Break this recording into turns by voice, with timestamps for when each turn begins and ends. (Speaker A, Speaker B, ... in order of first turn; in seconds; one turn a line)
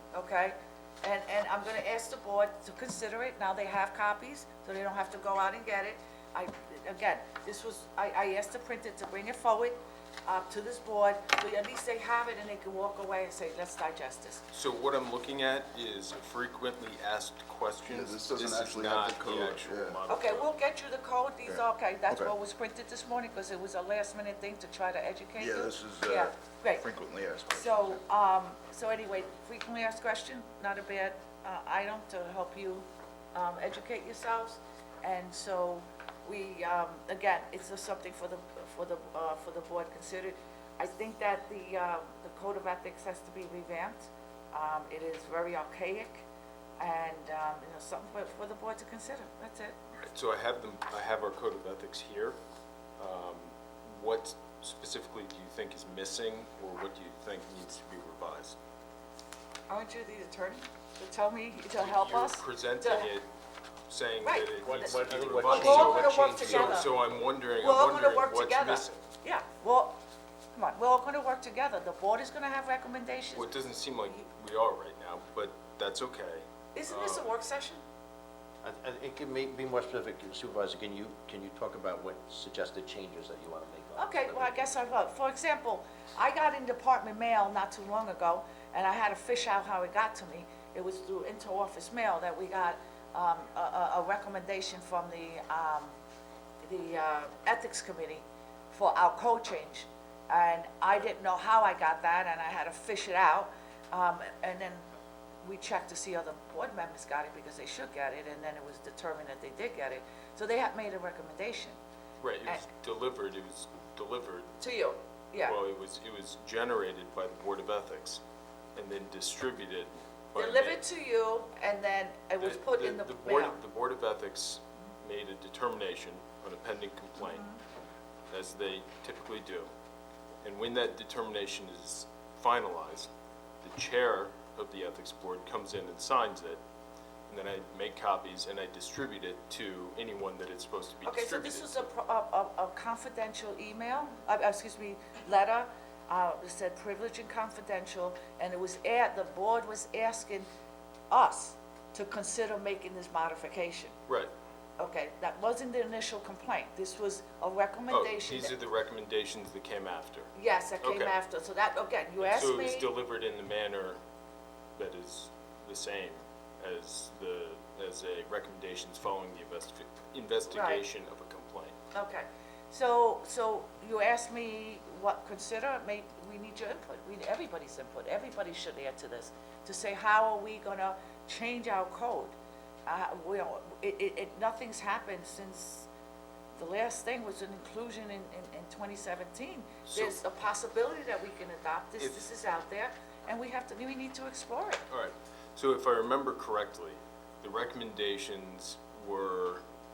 Speaker A: 0.1-14.4
Speaker B: 14.5-20.5
Speaker C: 17.9-20.0
Speaker A: 20.1-26.9
Speaker C: 21.4-22.3
Speaker C: 25.4-28.0
Speaker A: 27.5-46.2
Speaker A: 46.8-49.8
Speaker B: 50.1-52.4
Speaker B: 53.0-58.6
Speaker A: 59.7-63.1
Speaker B: 61.7-63.3
Speaker B: 63.9-69.0
Speaker A: 64.2-67.0
Speaker D: 64.7-66.8
Speaker A: 67.6-70.0
Speaker A: 70.5-73.5
Speaker B: 73.3-77.3
Speaker A: 76.8-77.8
Speaker D: 78.6-84.8
Speaker A: 84.0-95.9
Speaker A: 96.6-104.8
Speaker A: 105.4-111.8
Speaker B: 112.2-114.5
Speaker A: 114.6-115.6
Speaker B: 115.4-118.2
Speaker B: 118.8-120.8
Speaker A: 120.3-123.6
Speaker B: 122.4-127.5
Speaker A: 127.2-127.6
Speaker B: 128.3-129.7
Speaker B: 130.4-133.1
Speaker B: 133.6-136.6
Speaker B: 137.3-141.9
Speaker A: 141.1-150.5
Speaker A: 151.1-153.9
Speaker A: 154.8-158.6
Speaker B: 157.9-161.2
Speaker A: 160.4-162.9
Speaker B: 162.2-164.0
Speaker B: 164.8-171.8
Speaker A: 170.5-170.8
Speaker A: 171.9-182.3
Speaker A: 182.9-185.9
Speaker A: 186.6-194.8
Speaker B: 189.9-190.2
Speaker B: 192.0-192.3
Speaker B: 194.9-199.6